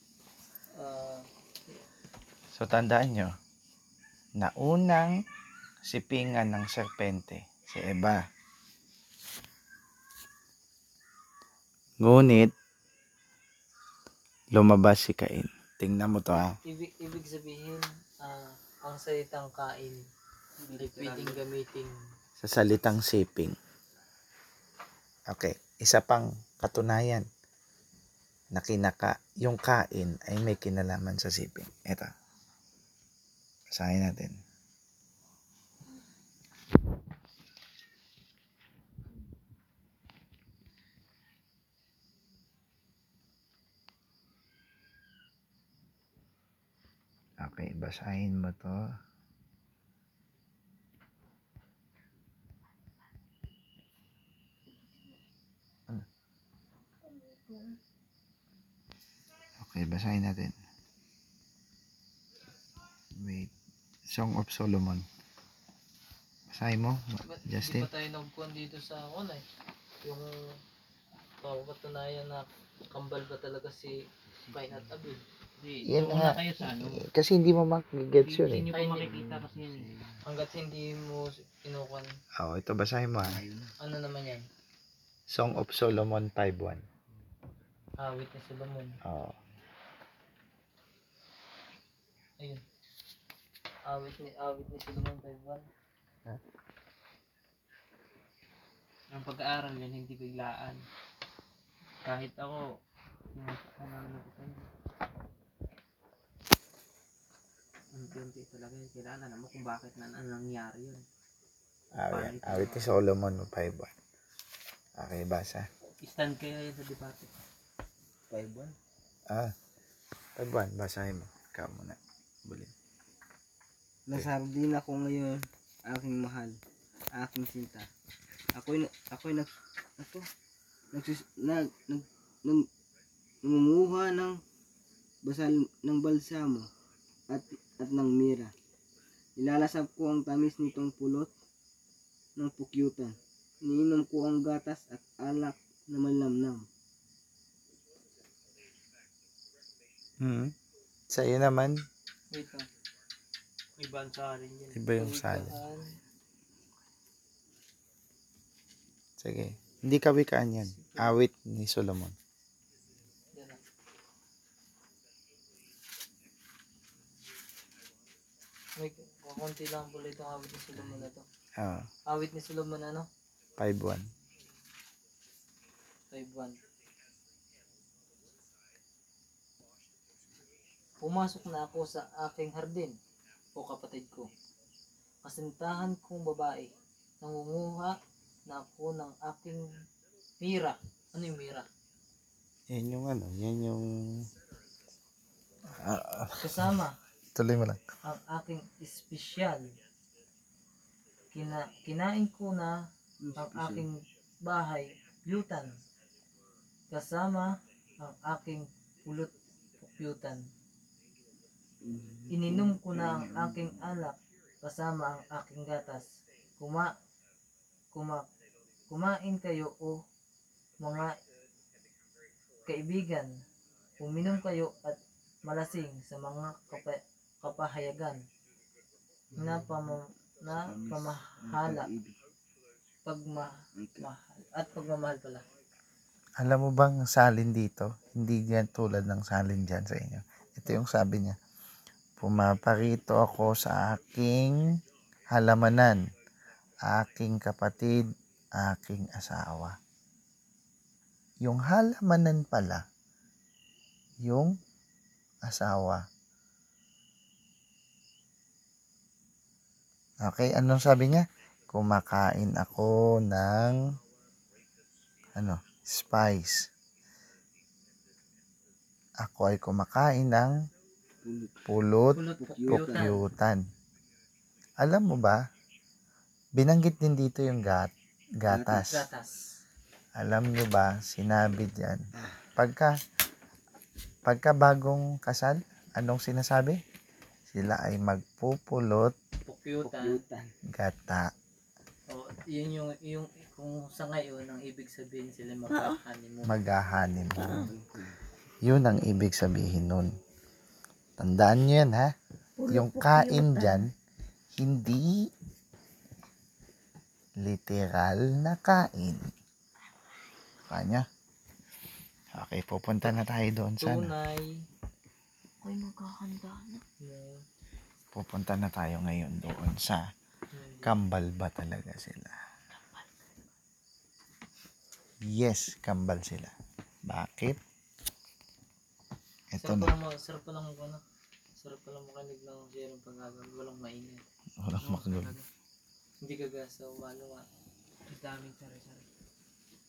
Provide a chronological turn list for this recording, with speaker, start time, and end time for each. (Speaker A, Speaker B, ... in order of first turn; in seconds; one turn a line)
Speaker A: 0.8-1.8
Speaker B: 2.5-3.4
Speaker B: 4.4-5.2
Speaker B: 5.8-8.3
Speaker B: 12.0-12.5
Speaker B: 14.5-16.6
Speaker A: 16.6-20.1
Speaker C: 20.6-21.4
Speaker A: 20.8-22.0
Speaker B: 22.4-23.6
Speaker B: 25.3-27.3
Speaker B: 28.5-32.1
Speaker B: 33.7-34.4
Speaker B: 47.4-48.8
Speaker D: 57.1-57.7
Speaker B: 59.6-60.6
Speaker B: 63.1-63.5
Speaker B: 64.1-65.1
Speaker B: 66.5-67.9
Speaker A: 67.2-69.4
Speaker A: 70.0-70.3
Speaker A: 71.4-75.2
Speaker E: 74.3-75.0
Speaker C: 75.6-77.0
Speaker B: 75.8-78.7
Speaker C: 78.2-79.9
Speaker A: 78.7-79.2
Speaker E: 79.0-80.2
Speaker A: 80.2-82.1
Speaker B: 82.4-83.4
Speaker E: 83.2-83.7
Speaker A: 83.8-84.5
Speaker B: 85.3-86.8
Speaker A: 88.0-89.0
Speaker B: 89.0-89.4
Speaker A: 93.9-95.7
Speaker C: 99.1-100.8
Speaker C: 102.0-102.6
Speaker C: 103.3-104.7
Speaker C: 107.9-111.0
Speaker B: 112.0-113.9
Speaker C: 112.1-112.9
Speaker B: 115.0-115.7
Speaker C: 116.0-117.3
Speaker E: 118.3-118.8
Speaker B: 119.3-119.5
Speaker B: 120.4-122.7
Speaker E: 124.1-126.6
Speaker E: 127.2-127.9
Speaker E: 128.6-130.2
Speaker E: 130.9-132.7
Speaker E: 133.4-134.4
Speaker E: 135.2-136.7
Speaker E: 137.3-138.5
Speaker E: 139.4-141.3
Speaker E: 142.4-146.7
Speaker B: 150.2-150.5
Speaker B: 151.1-151.8
Speaker A: 152.3-152.7
Speaker C: 153.8-154.8
Speaker B: 154.7-155.6
Speaker A: 155.0-155.9
Speaker B: 159.2-162.2
Speaker A: 160.8-161.1
Speaker A: 168.8-171.2
Speaker B: 171.6-171.9
Speaker A: 172.1-173.1
Speaker B: 173.6-174.1
Speaker A: 176.1-176.6
Speaker A: 181.0-183.0
Speaker A: 183.6-184.3
Speaker A: 185.2-189.7
Speaker A: 190.4-191.7
Speaker B: 192.7-194.3
Speaker B: 195.7-196.7
Speaker A: 196.4-197.0
Speaker B: 197.3-197.8
Speaker A: 198.0-199.7
Speaker A: 201.3-205.8
Speaker E: 203.2-203.9
Speaker A: 206.9-210.4
Speaker E: 211.8-214.1
Speaker A: 212.3-216.9
Speaker A: 217.9-218.2
Speaker A: 218.9-220.0
Speaker A: 220.8-221.2
Speaker A: 222.7-223.3
Speaker A: 224.0-228.2
Speaker E: 229.3-232.2
Speaker A: 229.4-231.9
Speaker A: 233.1-235.4
Speaker E: 233.8-234.1
Speaker B: 236.4-241.4
Speaker B: 242.2-244.6
Speaker B: 245.3-246.0
Speaker B: 246.8-249.8
Speaker B: 251.4-252.9
Speaker B: 254.2-254.6
Speaker B: 255.4-256.1
Speaker B: 260.2-263.8
Speaker B: 265.4-266.7
Speaker B: 269.2-270.6
Speaker E: 271.2-271.6
Speaker B: 271.7-273.6
Speaker A: 272.1-273.2
Speaker E: 272.4-273.1
Speaker B: 274.8-275.4
Speaker B: 276.6-279.0
Speaker E: 278.5-278.9
Speaker A: 278.7-279.4
Speaker B: 280.2-283.0
Speaker E: 282.1-282.4
Speaker B: 284.2-286.8
Speaker B: 287.5-289.1
Speaker A: 289.4-290.2
Speaker E: 289.8-290.5
Speaker B: 290.7-291.3
Speaker A: 292.1-296.6
Speaker D: 295.7-296.0
Speaker B: 296.4-297.7
Speaker D: 297.4-297.7
Speaker E: 297.4-298.2
Speaker B: 298.6-300.1
Speaker B: 301.2-302.1
Speaker D: 302.6-303.9
Speaker B: 302.7-303.9
Speaker B: 304.5-305.3
Speaker B: 307.4-309.3
Speaker B: 310.7-311.1
Speaker B: 312.3-314.1
Speaker A: 313.8-314.6
Speaker D: 315.6-316.8
Speaker A: 317.0-317.4
Speaker B: 318.1-320.1
Speaker A: 320.5-320.9
Speaker B: 320.8-322.4
Speaker D: 322.7-323.1
Speaker B: 325.2-326.6
Speaker B: 327.1-327.6
Speaker B: 329.5-329.9
Speaker A: 329.6-331.0
Speaker A: 331.6-334.2
Speaker B: 334.6-335.3
Speaker C: 334.8-335.5
Speaker A: 336.2-337.5
Speaker C: 338.1-339.1